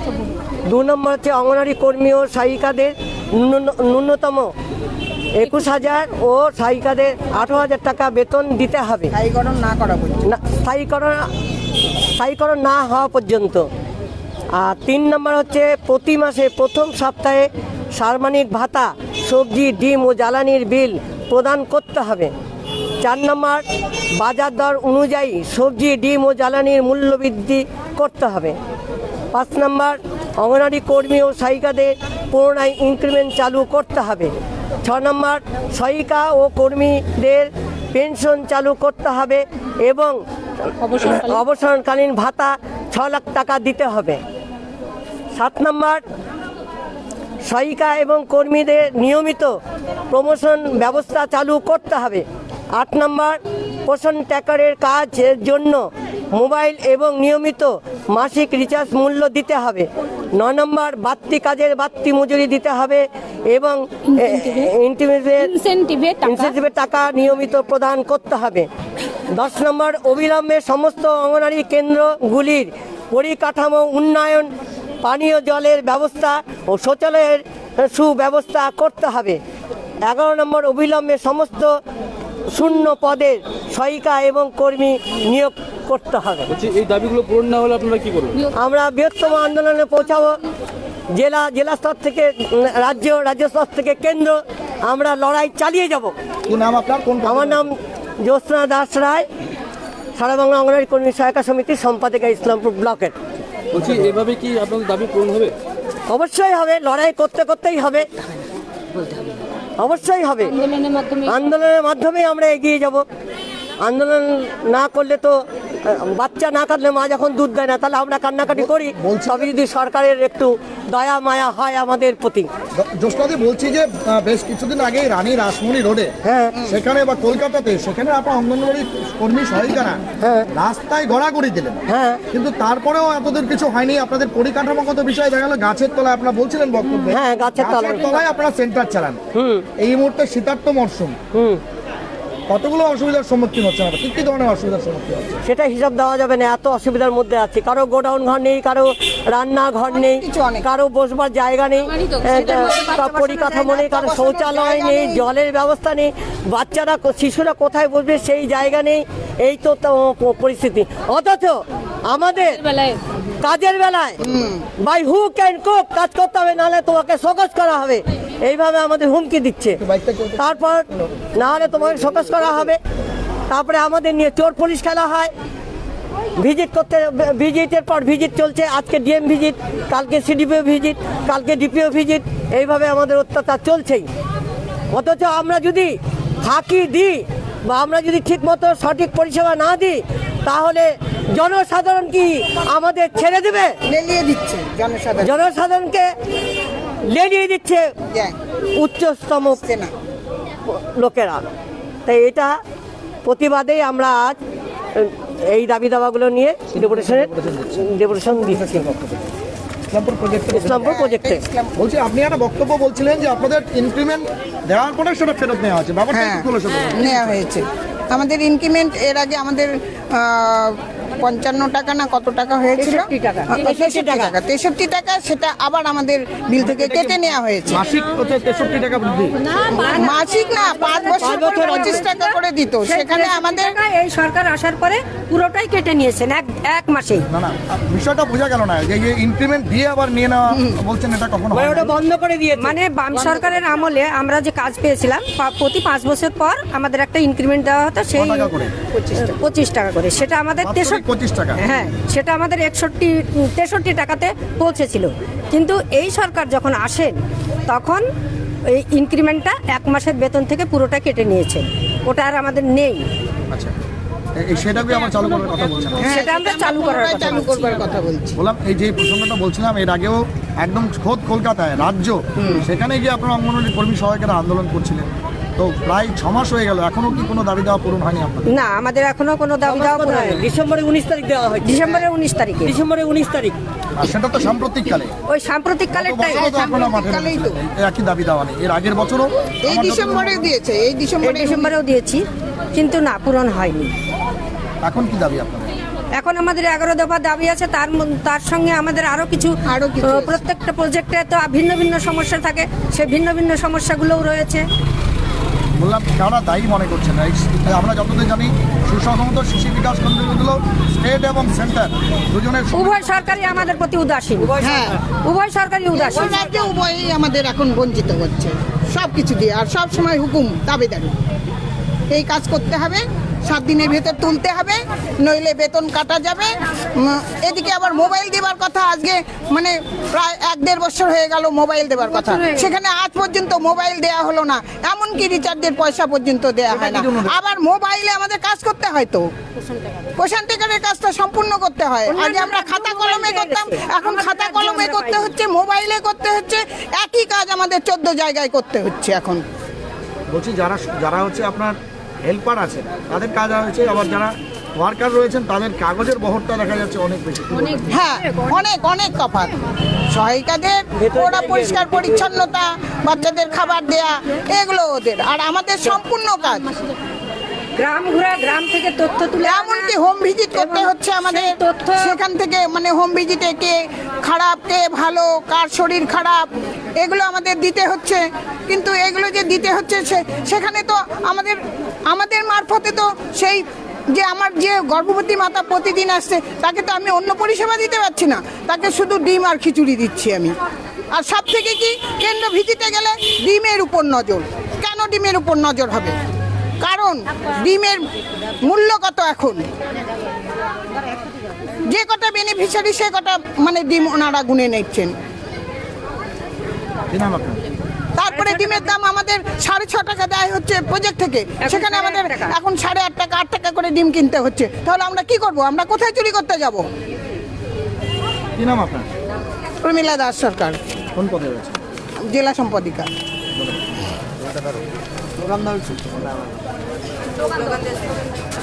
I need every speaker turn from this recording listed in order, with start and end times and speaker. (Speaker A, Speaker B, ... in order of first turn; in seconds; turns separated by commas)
Speaker A: 0.7-4.5, Speaker A: 5.3-9.1, Speaker B: 9.1-10.3, Speaker A: 10.2-11.3, Speaker A: 12.1-13.7, Speaker A: 14.5-22.3, Speaker A: 23.0-23.6, Speaker A: 24.2-28.6, Speaker A: 29.3-34.3, Speaker A: 34.8-40.1, Speaker A: 40.8-44.2, Speaker A: 45.3-46.0, Speaker A: 47.5-49.6, Speaker A: 50.1-65.6, Speaker A: 66.2-68.7, Speaker A: 69.3-74.5, Speaker A: 75.0-79.4, Speaker A: 80.1-81.8, Speaker A: 82.5-86.5, Speaker C: 86.6-88.4, Speaker A: 88.5-90.4, Speaker A: 91.1-96.1, Speaker D: 96.5-97.7, Speaker A: 97.2-99.3, Speaker A: 100.2-103.2, Speaker D: 103.7-104.2, Speaker C: 104.2-105.5, Speaker A: 106.1-108.0, Speaker A: 109.8-110.6, Speaker A: 111.2-113.0, Speaker A: 113.8-122.5, Speaker D: 118.5-119.5, Speaker D: 122.8-126.1, Speaker A: 126.2-126.5, Speaker D: 126.6-130.0, Speaker A: 130.2-130.5, Speaker D: 130.5-131.8, Speaker A: 131.9-132.2, Speaker D: 132.3-139.2, Speaker A: 137.1-138.0, Speaker A: 139.3-139.7, Speaker D: 139.8-141.2, Speaker A: 141.3-141.6, Speaker D: 142.5-145.4, Speaker A: 145.4-164.2, Speaker B: 149.9-150.7, Speaker B: 153.3-155.2, Speaker B: 164.3-164.6, Speaker A: 164.8-169.8, Speaker D: 169.8-171.0, Speaker A: 170.3-170.8, Speaker A: 171.3-172.8, Speaker A: 173.5-175.3, Speaker A: 176.3-184.1, Speaker A: 184.9-193.7, Speaker B: 193.8-195.4, Speaker A: 195.2-196.1, Speaker A: 197.1-197.9, Speaker B: 198.1-198.3, Speaker A: 198.8-199.6, Speaker B: 199.5-199.9, Speaker A: 200.7-201.4, Speaker A: 202.1-202.6, Speaker A: 203.2-204.4, Speaker A: 204.9-208.9, Speaker D: 206.7-209.2, Speaker D: 209.9-210.9, Speaker A: 210.5-211.4, Speaker B: 210.8-211.7, Speaker D: 211.8-217.4, Speaker B: 216.1-227.8, Speaker E: 222.8-223.6, Speaker A: 223.6-224.3, Speaker D: 226.6-227.2, Speaker D: 227.7-229.4, Speaker E: 229.7-237.2, Speaker B: 229.7-233.8, Speaker A: 231.2-232.0, Speaker D: 237.3-241.9, Speaker A: 241.5-242.8, Speaker E: 242.6-248.5, Speaker D: 248.1-248.7, Speaker B: 248.9-249.3, Speaker E: 249.2-251.0, Speaker D: 250.6-251.6, Speaker E: 251.6-257.1, Speaker E: 257.7-258.0, Speaker E: 258.7-263.1, Speaker D: 264.4-266.2, Speaker B: 266.0-268.4, Speaker E: 266.0-267.8, Speaker D: 268.4-278.5, Speaker E: 278.5-280.4, Speaker A: 279.6-282.0, Speaker E: 281.6-282.7, Speaker A: 282.6-283.6, Speaker D: 283.9-285.1, Speaker E: 285.3-286.6, Speaker D: 285.9-290.5, Speaker B: 286.3-287.6, Speaker B: 289.6-291.7, Speaker E: 291.2-293.9, Speaker D: 294.8-295.7, Speaker E: 296.2-304.6, Speaker B: 299.7-300.4, Speaker D: 305.8-313.5, Speaker E: 312.7-314.5, Speaker B: 314.6-315.0, Speaker E: 315.2-316.4, Speaker B: 315.9-321.1, Speaker B: 322.1-339.2, Speaker E: 332.1-332.7, Speaker D: 336.7-337.4, Speaker B: 340.2-349.4, Speaker E: 342.1-345.3, Speaker D: 350.3-357.8, Speaker B: 357.9-359.6, Speaker B: 360.1-366.6, Speaker A: 361.0-362.0, Speaker E: 367.8-369.9, Speaker B: 369.4-376.4, Speaker E: 370.5-372.2, Speaker B: 377.0-381.6, Speaker B: 382.1-390.5, Speaker B: 391.1-396.1, Speaker B: 396.8-398.0, Speaker B: 398.6-399.6, Speaker B: 401.9-405.1, Speaker D: 407.1-407.6, Speaker B: 408.1-416.8, Speaker E: 408.3-408.9, Speaker E: 411.6-412.5, Speaker D: 418.6-419.1, Speaker B: 419.8-420.8, Speaker D: 421.1-421.8, Speaker B: 422.2-423.1, Speaker D: 423.5-424.8, Speaker D: 425.4-426.6